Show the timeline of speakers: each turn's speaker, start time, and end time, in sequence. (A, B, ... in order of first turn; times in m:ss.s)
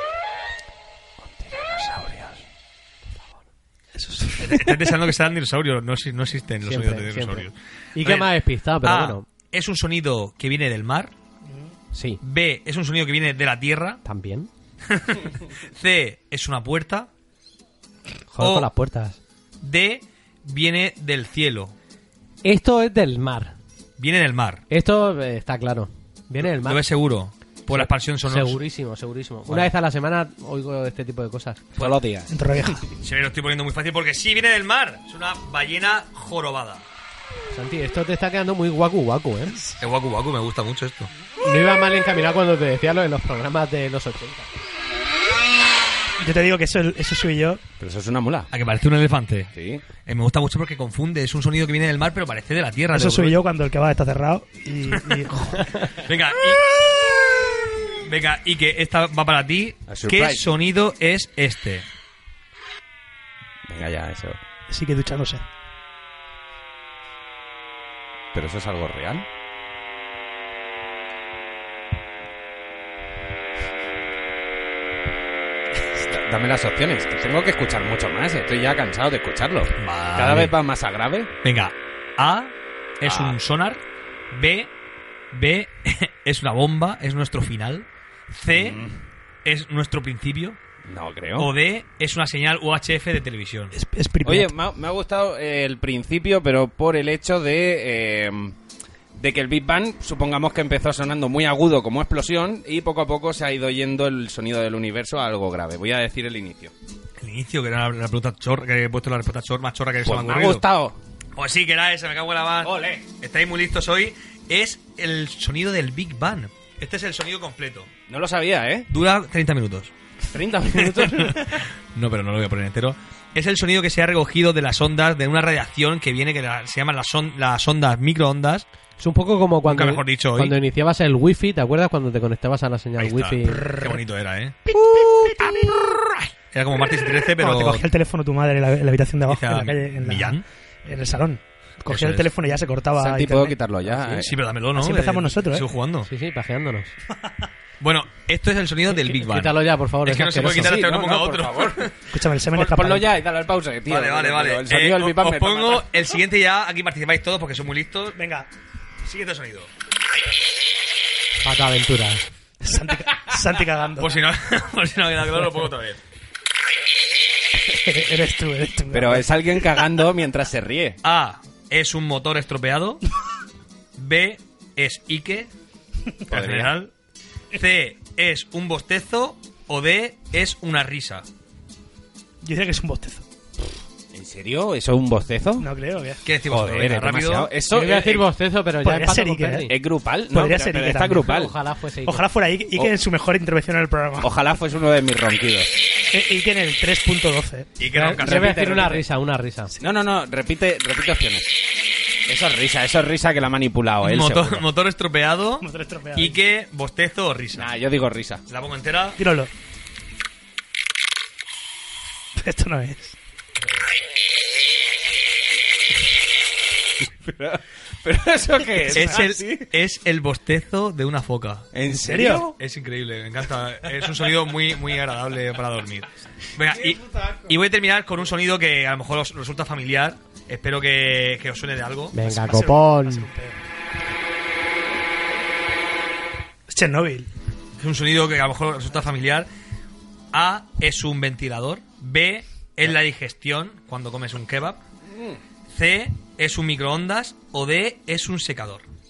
0:01.4-0:02.3 A
0:01.9-0:02.3 B
0:04.0-0:04.9 A
0:04.4-0:08.3 C
0:06.6-0:09.2 B
0:08.8-0:11.1 C
0:11.9-0:12.2 B
0:12.2-0:14.0 C
0:14.0-0:14.5 B
0:14.9-0:17.1 C
0:18.3-0:19.2 B
0:18.4-0:18.7 C
0:19.6-0:21.8 C
0:22.4-0:23.6 B
0:24.0-0:24.6 C
0:24.7-0:26.8 B
0:26.4-0:28.6 C
0:27.7-0:31.6 B
0:29.5-0:29.7 C
0:31.8-0:32.3 D
0:32.3-0:32.8 A
0:33.0-0:36.8 C
0:37.5-0:39.6 B
0:39.8-0:41.1 C
0:41.4-0:44.5 B
0:46.2-0:47.6 A
0:47.8-0:48.5 D
0:48.5-0:49.5 C
0:49.5-0:49.8 D
0:50.0-0:53.4 C
0:52.9-0:55.9 A
0:54.9-0:57.0 C
0:57.9-1:01.8 C
0:59.9-1:00.5 D
1:03.7-1:04.4 D
1:04.7-1:05.4 A
1:08.3-1:09.3 D
1:16.0-1:21.3 D
1:19.8-1:20.5 C
1:21.4-1:24.7 C
1:23.0-1:23.4 D
1:25.3-1:28.8 C
1:28.5-1:29.0 D
1:29.4-1:30.6 C
1:30.8-1:31.5 D
1:31.4-1:33.8 C
1:33.7-1:34.5 A
1:34.2-1:38.6 D
1:39.2-1:46.7 D
1:47.2-1:50.6 C
1:50.0-1:51.0 D
1:51.4-1:57.9 C
1:52.6-1:53.0 D
1:58.1-1:58.9 D
1:58.9-1:59.9 C
2:00.3-2:01.6 D
2:00.7-2:08.7 C
2:09.0-2:13.7 B
2:09.7-2:10.6 C
2:13.0-2:14.6 C
2:13.5-2:14.0 A
2:14.7-2:15.7 A
2:14.7-2:16.0 D
2:16.5-2:17.8 C
2:17.4-2:23.6 A
2:19.3-2:20.4 C
2:21.9-2:22.3 C
2:23.0-2:24.3 D
2:24.0-2:26.1 C
2:24.8-2:25.6 A
2:26.1-2:26.9 B
2:27.8-2:32.0 C
2:29.1-2:30.9 B
2:30.4-2:31.9 D
2:32.1-2:33.1 A
2:32.5-2:35.9 D
2:33.9-2:38.2 C
2:38.2-2:38.5 A
2:39.0-2:39.7 C
2:41.4-2:42.3 B
2:42.6-2:44.2 A
2:44.0-2:46.0 C
2:47.6-2:49.7 A
2:48.9-2:51.0 D
2:51.0-2:53.0 C
2:54.0-2:55.5 C
2:56.3-2:56.9 C
2:56.3-2:56.8 D
2:57.5-3:01.2 C
3:02.4-3:03.3 A
3:04.1-3:05.7 D
3:05.6-3:06.2 A
3:06.2-3:07.5 C
3:06.5-3:08.3 D
3:07.7-3:09.7 B
3:08.8-3:09.7 A
3:09.7-3:11.6 D
3:10.3-3:11.3 A
3:11.2-3:12.2 B
3:12.0-3:14.3 A
3:14.2-3:15.8 D
3:16.1-3:17.7 A
3:17.8-3:18.7 C
3:17.9-3:19.7 B
3:18.2-3:19.0 D
3:19.8-3:21.6 D
3:22.3-3:24.7 D
3:24.0-3:27.7 C
3:25.6-3:26.4 A
3:27.5-3:28.4 D
3:28.5-3:29.2 C
3:29.2-3:29.5 A
3:32.4-3:33.2 A
3:37.0-3:39.7 D
3:38.9-3:41.7 C
3:41.7-3:42.6 D
3:42.0-3:42.5 A
3:42.6-3:52.2 C
3:46.7-3:47.5 D
3:52.1-3:53.3 B
3:52.2-3:53.6 A
3:56.7-3:57.3 A
3:57.8-3:59.5 C
4:00.3-4:04.8 C
4:05.1-4:05.4 D
4:05.7-4:08.8 C